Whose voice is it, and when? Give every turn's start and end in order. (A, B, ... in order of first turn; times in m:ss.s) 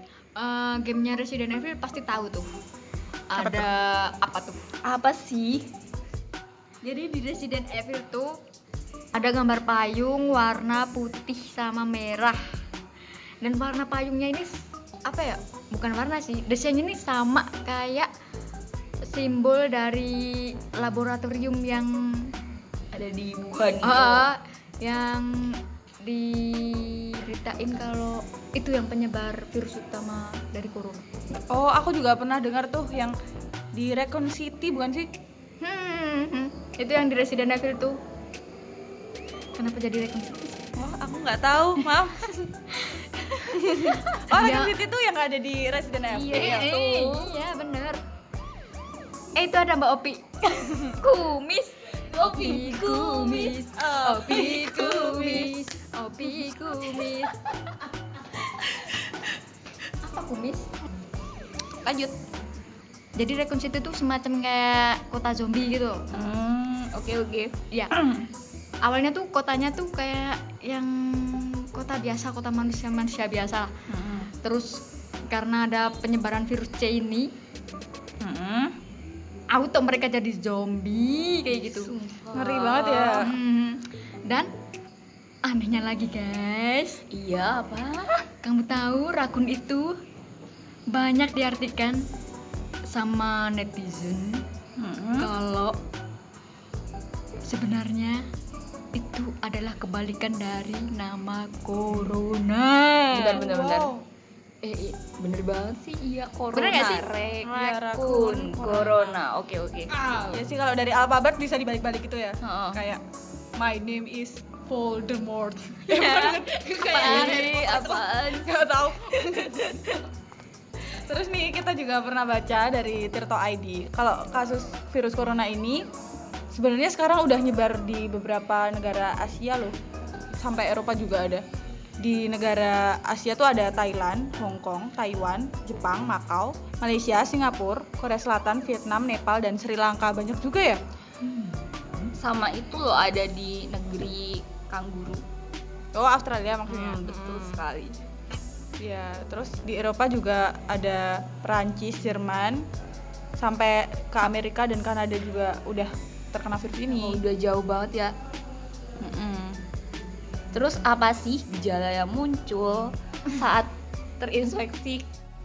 0:00.4-0:02.5 A
0:03.3-0:04.6 A
0:03.3-0:03.7 B
0:04.8-0:05.7 C
0:06.8-0:08.4 A
0:09.1-0:12.4 A
0:13.4-0:18.1 A
0:19.1-0:22.3 A
0:22.9-0:24.2 C
0:23.8-0:31.0 A
0:31.5-0:33.1 B
0:33.7-0:35.1 B
0:35.6-0:38.0 A
0:39.6-0:40.6 A
0:40.8-0:42.5 B
0:42.8-0:44.8 A
0:43.5-0:46.7 B
0:46.1-0:47.4 C
0:46.3-0:48.0 A
0:49.3-0:50.2 A
0:50.9-0:57.4 A
0:52.1-0:53.6 C
0:53.8-0:55.5 B
0:54.3-0:55.4 C
0:58.7-0:58.9 C
1:00.0-1:00.7 A
1:01.9-1:02.1 B
1:03.2-1:06.0 A
1:06.1-1:08.3 C
1:08.8-1:13.7 A
1:14.4-1:17.3 A
1:18.2-1:18.7 C
1:19.5-1:21.9 A
1:21.7-1:23.3 C
1:22.3-1:23.3 B
1:23.2-1:24.5 A
1:25.4-1:27.0 A
1:27.1-1:28.1 C
1:28.4-1:29.9 A
1:30.9-1:32.0 A
1:32.9-1:34.4 A
1:34.8-1:35.3 C
1:35.2-1:35.7 A
1:37.5-1:38.2 A
1:38.9-1:43.4 A
1:43.1-1:43.9 C
1:43.3-1:44.0 B
1:44.6-1:49.9 C
1:46.5-1:47.0 A
1:47.4-1:49.2 B
1:50.0-1:53.0 B
1:52.4-1:52.8 C
1:53.6-1:59.8 B
1:55.9-1:57.6 A
1:56.9-2:00.0 C
2:01.0-2:05.9 B
2:06.5-2:09.8 B
2:10.4-2:11.4 B
2:12.0-2:20.8 B
2:22.1-2:25.2 C
2:25.9-2:27.6 B
2:26.7-2:28.0 C
2:28.8-2:32.6 B
2:33.4-2:37.2 B
2:36.9-2:38.1 C
2:39.0-2:39.6 B
2:40.5-2:45.0 C